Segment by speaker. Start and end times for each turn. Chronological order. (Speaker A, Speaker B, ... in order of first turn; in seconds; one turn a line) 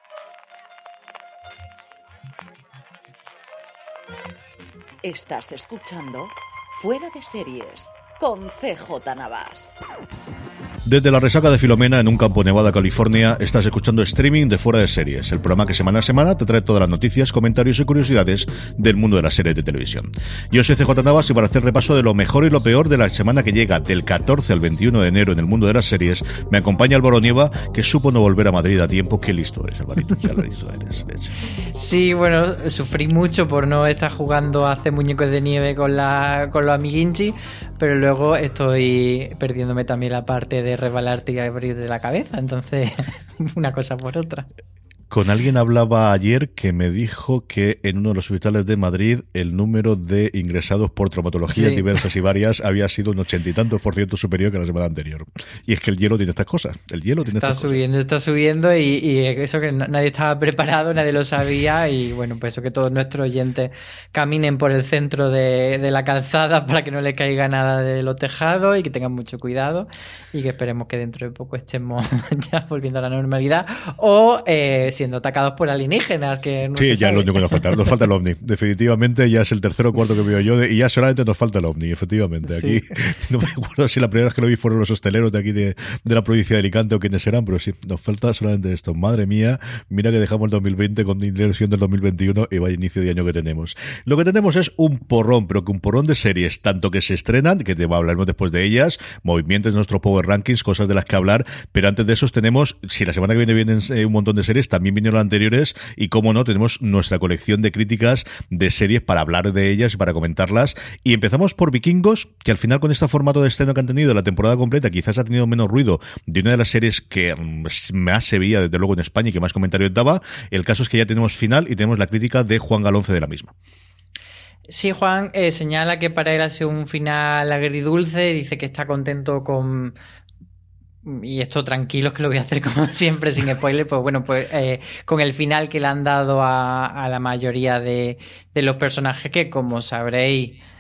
Speaker A: 5.0-9.7
Speaker B: 10.8-31.4
Speaker C: 31.8-44.5
Speaker B: 45.1-57.8
Speaker C: 51.5-51.9
Speaker C: 57.3-78.0
Speaker B: 76.8-123.5
Speaker C: 82.4-82.8
Speaker C: 124.7-129.9
Speaker C: 131.0-140.6